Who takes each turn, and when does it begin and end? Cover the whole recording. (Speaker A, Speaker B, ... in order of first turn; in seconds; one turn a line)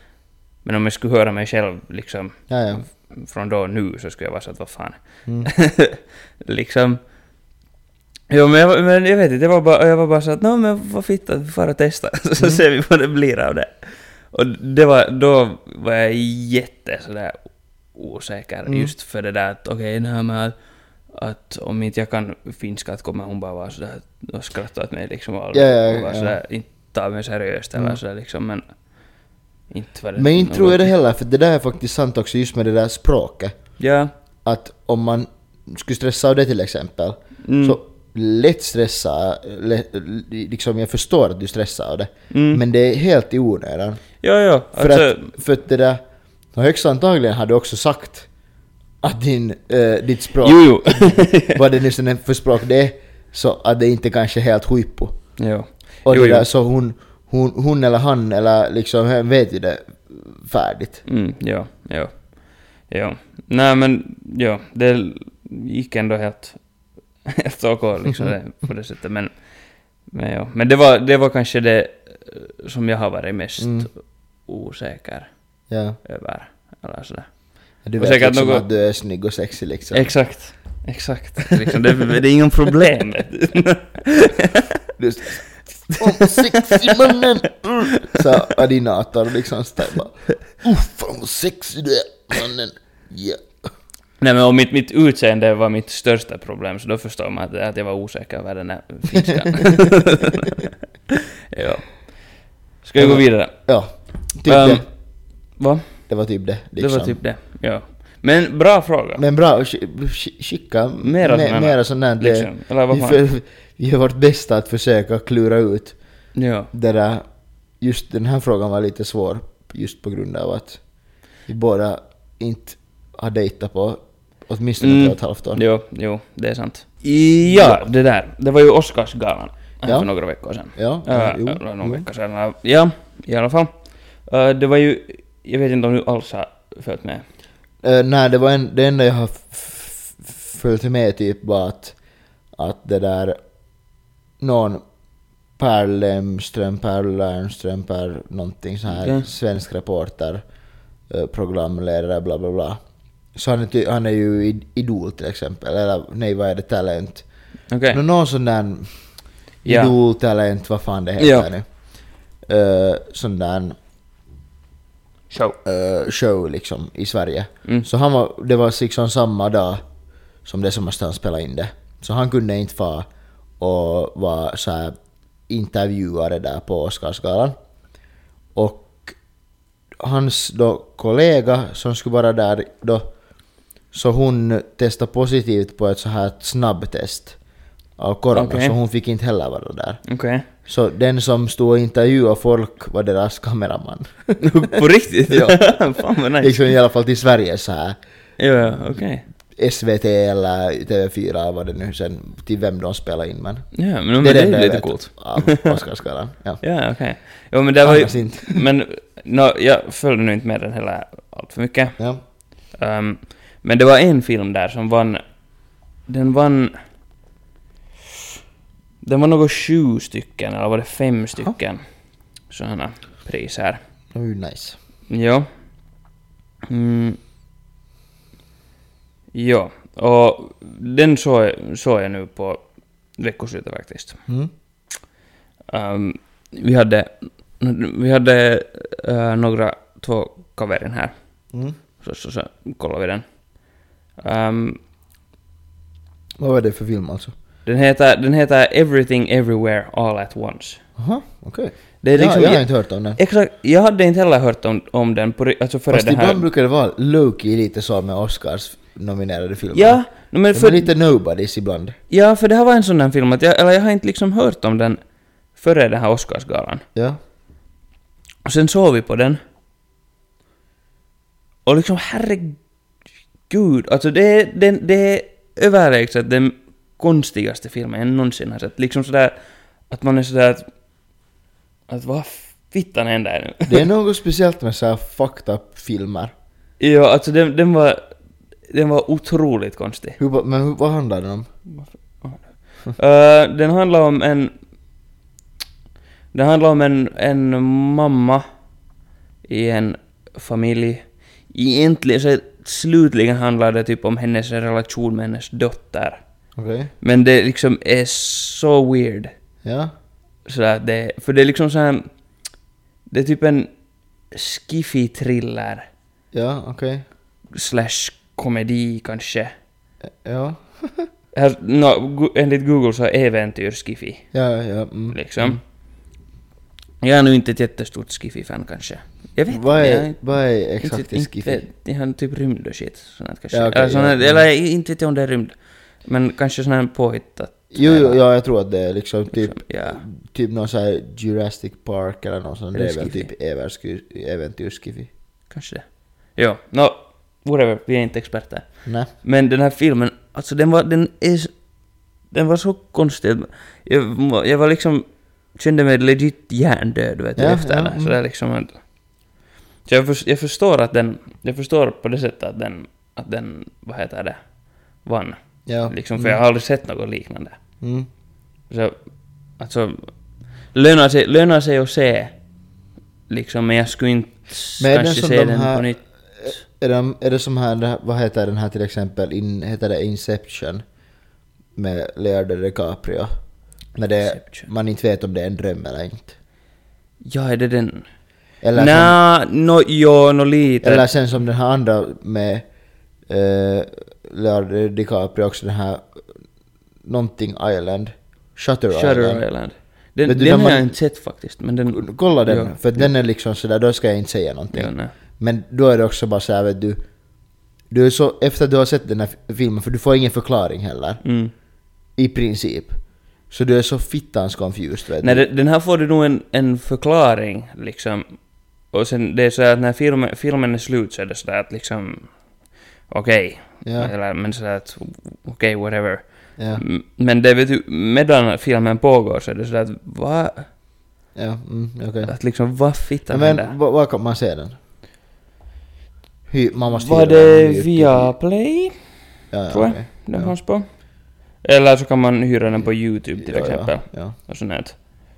Speaker A: 0.6-7.0
Speaker B: 2.5-2.8
Speaker A: 8.3-13.8
Speaker A: 14.3-17.4
Speaker A: 17.9-20.5
Speaker B: 18.6-18.9
Speaker A: 21.1-28.6
Speaker B: 25.5-26.4
Speaker A: 29.7-30.9
Speaker B: 30.1-33.5
Speaker A: 33.8-34.1
Speaker B: 34.4-44.0
Speaker A: 37.4-37.8
Speaker A: 42.3-42.6
Speaker A: 44.2-45.3
Speaker B: 44.7-46.0
Speaker B: 46.5-48.3
Speaker B: 49.0-55.1
Speaker A: 50.4-51.6
Speaker A: 55.4-56.5
Speaker B: 56.0-61.0
Speaker A: 61.0-62.3
Speaker A: 62.9-66.6
Speaker A: 67.2-69.3
Speaker A: 70.1-73.9
Speaker B: 73.6-73.9
Speaker A: 74.5-75.3
Speaker B: 75.7-76.0
Speaker A: 76.0-78.6
Speaker B: 77.8-80.1
Speaker A: 79.9-84.7
Speaker B: 85.0-93.4
Speaker A: 85.9-87.2
Speaker A: 87.9-88.5
Speaker A: 94.2-100.7
Speaker B: 99.3-99.9
Speaker A: 101.5-103.5
Speaker B: 103.0-104.8
Speaker A: 104.5-104.8
Speaker A: 105.6-105.9
Speaker B: 106.1-107.2
Speaker A: 106.8-109.2
Speaker B: 109.2-116.0
Speaker A: 111.0-113.2
Speaker A: 116.3-116.7
Speaker B: 116.7-117.2
Speaker B: 117.8-120.8
Speaker B: 121.5-125.6
Speaker A: 124.8-133.7
Speaker B: 127.5-127.8
Speaker B: 129.8-130.1
Speaker B: 130.7-132.1
Speaker A: 134.2-137.2
Speaker B: 137.8-141.9
Speaker B: 142.6-143.4
Speaker B: 144.4-144.8
Speaker B: 145.6-150.4
Speaker A: 148.9-149.2
Speaker B: 151.1-152.8
Speaker B: 153.3-157.2
Speaker A: 157.7-158.0
Speaker B: 157.9-158.9
Speaker B: 159.6-161.7
Speaker A: 159.6-159.9
Speaker A: 161.2-161.5
Speaker B: 162.5-163.8
Speaker A: 165.3-165.6
Speaker B: 165.6-169.8
Speaker B: 170.4-173.1
Speaker B: 173.6-174.9
Speaker B: 175.5-177.5
Speaker B: 178.5-179.2
Speaker B: 180.0-183.1
Speaker B: 183.9-187.4
Speaker B: 188.0-190.0
Speaker A: 188.3-188.7
Speaker A: 190.1-190.4
Speaker B: 190.6-194.7
Speaker A: 194.4-196.6
Speaker B: 195.3-195.8
Speaker B: 196.4-198.0
Speaker A: 198.4-199.2
Speaker B: 199.6-206.6
Speaker A: 203.7-205.7
Speaker A: 206.6-212.0
Speaker B: 207.8-208.6
Speaker A: 212.7-215.2
Speaker A: 216.1-216.7
Speaker A: 219.0-221.8
Speaker A: 222.5-223.8
Speaker B: 224.1-224.8
Speaker A: 225.1-225.5
Speaker A: 226.7-227.2
Speaker A: 229.3-232.6
Speaker A: 233.2-234.2
Speaker A: 235.7-241.1
Speaker A: 242.0-243.2
Speaker A: 244.2-244.8
Speaker B: 246.4-247.3
Speaker A: 247.7-250.8
Speaker B: 251.0-253.2
Speaker A: 252.0-256.4
Speaker B: 255.9-260.0
Speaker A: 259.7-260.9
Speaker B: 260.5-261.9
Speaker A: 262.1-265.0
Speaker A: 265.6-266.8
Speaker A: 268.4-269.4
Speaker A: 271.6-272.6
Speaker A: 273.5-279.3
Speaker A: 279.9-280.6
Speaker A: 281.9-283.8
Speaker B: 283.7-286.3
Speaker A: 286.8-288.0
Speaker A: 288.7-290.2
Speaker B: 290.2-291.5
Speaker A: 291.8-294.5
Speaker A: 296.3-298.4
Speaker A: 299.4-306.2
Speaker B: 306.6-306.9
Speaker A: 307.0-309.3
Speaker B: 309.6-309.9
Speaker A: 310.4-312.1
Speaker A: 313.1-313.7
Speaker A: 314.3-315.9
Speaker B: 316.3-317.0
Speaker A: 317.5-319.5
Speaker B: 320.2-321.1
Speaker A: 321.3-324.2
Speaker B: 324.3-325.6
Speaker A: 325.1-325.6
Speaker A: 327.0-330.2
Speaker B: 329.5-331.6
Speaker A: 330.8-338.2
Speaker B: 333.5-334.4
Speaker B: 337.7-345.1
Speaker A: 339.3-340.0
Speaker A: 342.7-343.3
Speaker A: 345.5-351.6
Speaker B: 348.8-349.1
Speaker A: 352.3-358.8
Speaker B: 357.4-358.1
Speaker A: 359.9-364.5
Speaker A: 365.0-367.6
Speaker B: 365.6-366.4
Speaker B: 367.8-368.1
Speaker A: 368.7-369.0
Speaker A: 369.6-370.1
Speaker A: 370.7-372.3
Speaker A: 373.3-376.6
Speaker B: 374.8-375.9
Speaker B: 376.4-380.8
Speaker B: 381.8-383.3
Speaker B: 383.9-386.3
Speaker A: 384.2-384.7
Speaker A: 387.2-388.1
Speaker B: 388.6-389.1
Speaker A: 388.7-391.1
Speaker B: 390.8-392.6
Speaker B: 393.3-396.2
Speaker B: 397.0-399.4
Speaker A: 398.9-403.1
Speaker B: 400.2-400.9
Speaker B: 401.9-407.0
Speaker A: 404.7-405.1
Speaker B: 407.9-411.2
Speaker A: 411.2-411.5
Speaker B: 412.2-413.0
Speaker B: 413.5-415.4
Speaker A: 415.2-422.3
Speaker A: 423.1-430.7
Speaker B: 423.8-424.1
Speaker B: 426.6-426.8
Speaker B: 431.3-432.3
Speaker A: 432.2-433.7
Speaker B: 433.3-434.8
Speaker B: 436.5-438.3
Speaker A: 436.9-438.9
Speaker B: 439.5-440.5
Speaker A: 439.7-440.9
Speaker A: 441.6-444.9
Speaker B: 443.4-444.3